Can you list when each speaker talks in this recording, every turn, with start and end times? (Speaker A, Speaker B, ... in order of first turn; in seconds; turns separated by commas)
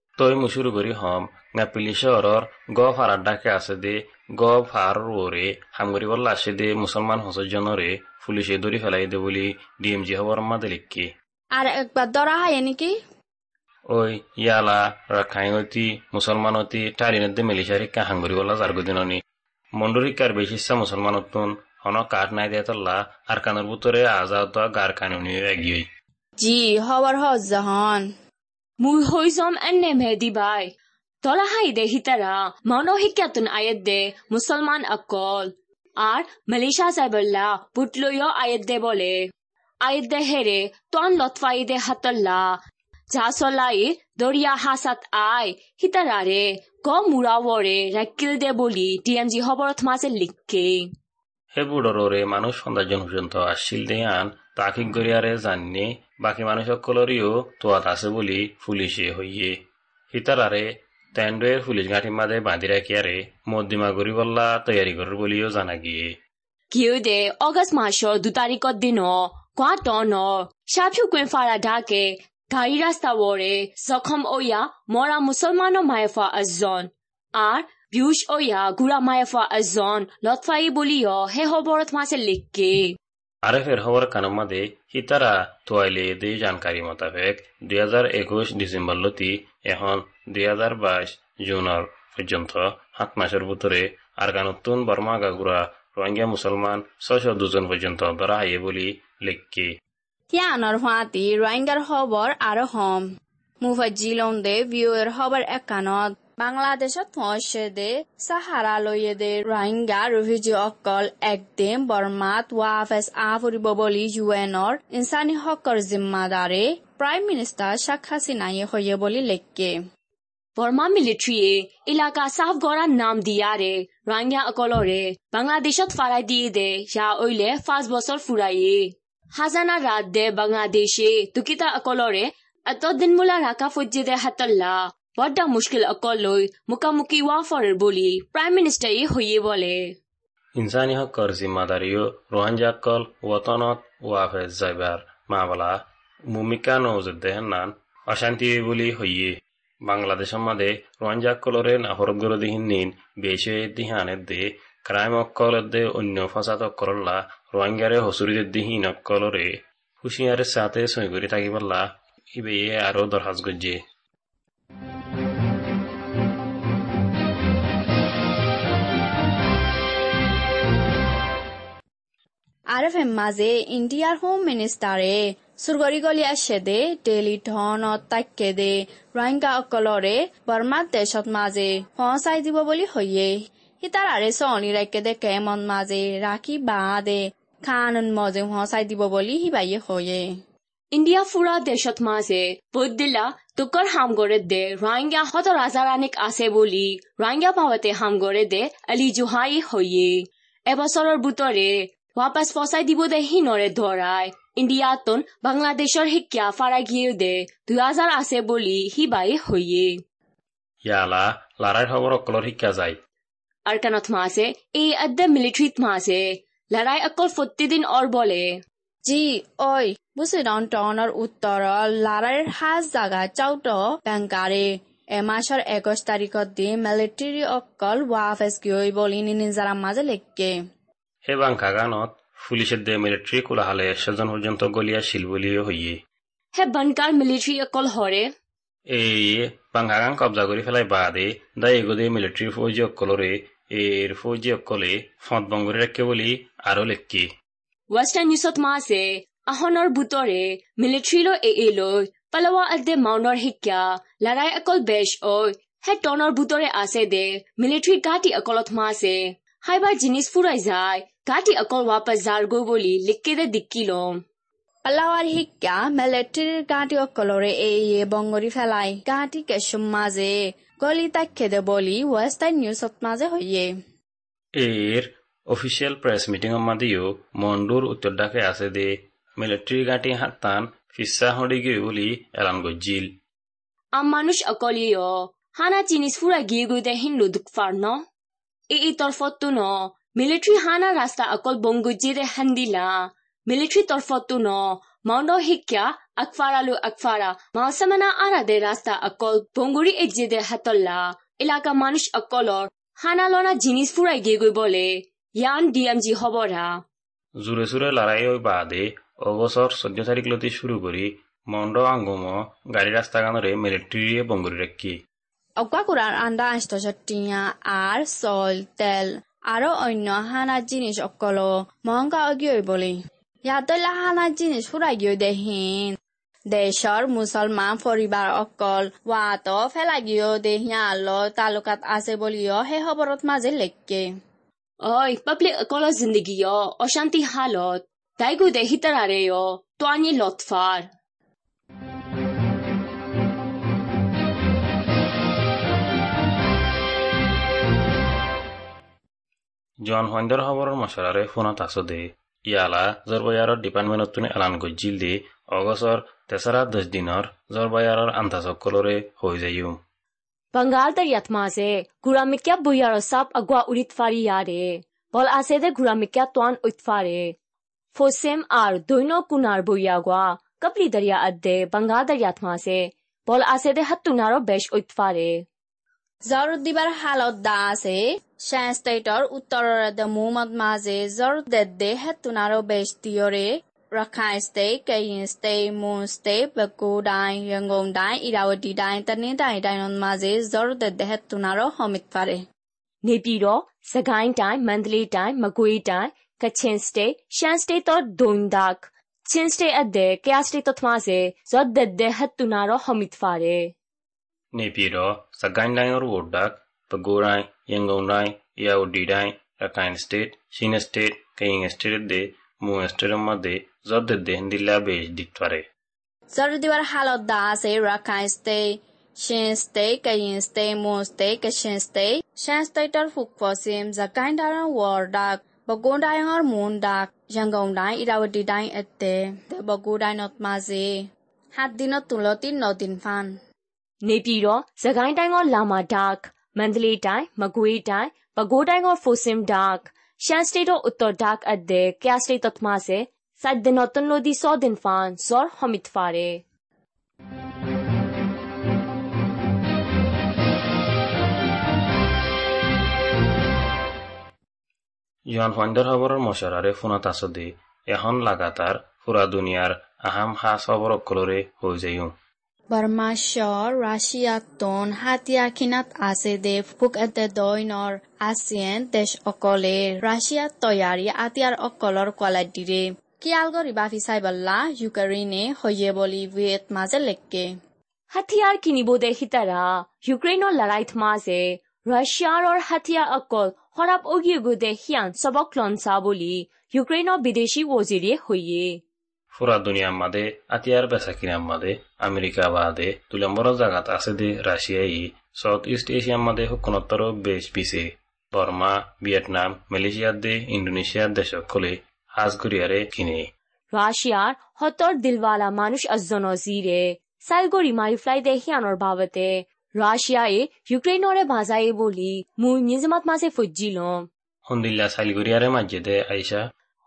Speaker A: 0.2-11.1, Speaker B: 11.5-12.9, Speaker A: 13.9-19.2, Speaker A: 19.8-25.9, Speaker B: 26.4-28.1, Speaker C: 28.8-39.2, Speaker C: 39.8-42.5, Speaker C: 43.1-50.9, Speaker A: 51.5-59.6, Speaker A: 60.1-66.1, Speaker C: 66.7-82.9, Speaker A: 83.4-99.7, Speaker B: 100.3-103.0, Speaker B: 103.6-119.7, Speaker C: 120.6-139.9, Speaker A: 140.6-163.8, Speaker B: 172.7-190.2, Speaker C: 190.9-209.9, Speaker A: 210.8-213.0, Speaker C: 213.7-218.6, Speaker B: 219.1-230.5, Speaker A: 231.2-236.0, Speaker C: 236.5-238.3, Speaker A: 238.9-247.3, Speaker C: 247.9-264.2, Speaker B: 264.8-273.7, Speaker A: 274.6-283.1, Speaker C: 283.9-288.0, Speaker C: 288.7-306.8, Speaker A: 307.4-315.0, Speaker B: 315.6-326.0, Speaker B: 326.5-334.1, Speaker C: 334.8-340.9, Speaker A: 349.8-359.8, Speaker C: 360.5-367.3, Speaker C: 367.9-375.4, Speaker B: 376.3-392.4, Speaker C: 393.0-403.7, Speaker A: 404.5-415.6, Speaker B: 416.3-418.6, Speaker B: 419.2-430.9, Speaker B: 431.6-433.3, Speaker C: 434.0-446.4, Speaker A: 455.3-462.1, Speaker B: 462.7-477.5, Speaker C: 478.1-488.8, Speaker A: 489.3-503.3, Speaker C: 503.7-514.1, Speaker A: 514.5-516.4